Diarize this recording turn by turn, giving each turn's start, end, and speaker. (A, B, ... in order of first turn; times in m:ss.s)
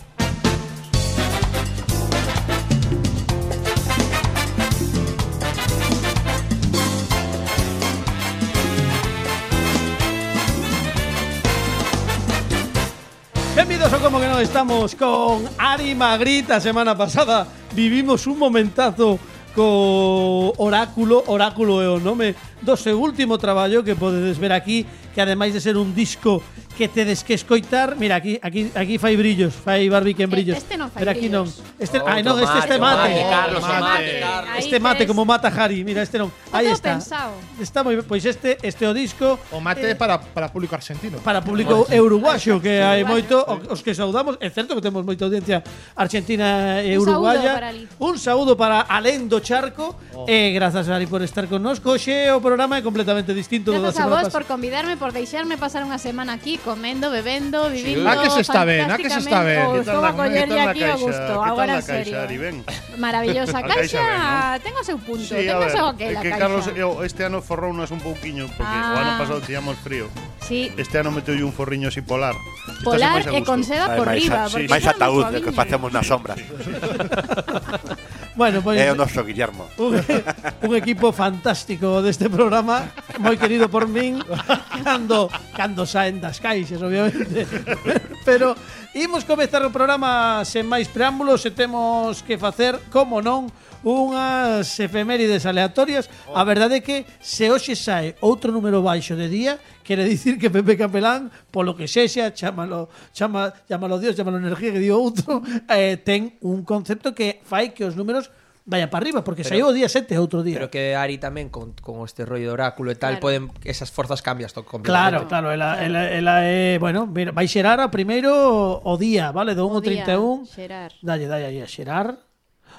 0:13.5-0:40.0 A
0:30.3-0:31.6 B
0:31.9-0:34.7 C
0:32.5-0:35.2 B
0:33.0-0:34.3 D
0:36.5-0:37.5 B
0:39.5-0:41.5 D
0:41.2-0:54.4 A
0:41.6-0:42.0 C
0:42.1-0:43.6 B
0:46.9-0:47.9 B
0:53.7-1:06.8 B
0:57.7-0:58.4 C
0:58.0-1:00.3 D
0:59.7-1:02.7 E
1:03.6-1:04.5 E
1:05.2-1:10.1 E
1:08.6-1:09.4 B
1:10.4-1:10.8 B
1:10.8-1:13.8 E
1:12.8-1:15.8 B
1:13.8-1:16.7 F
1:14.4-1:14.8 E
1:16.6-1:17.0 E
1:18.3-1:19.0 A
1:18.7-1:19.7 F
1:19.8-1:50.7 A
1:50.5-1:55.3 C
1:53.0-1:53.4 B
1:54.8-2:00.5 A
1:55.0-1:56.0 B
1:59.7-2:01.0 B
2:01.0-2:02.2 A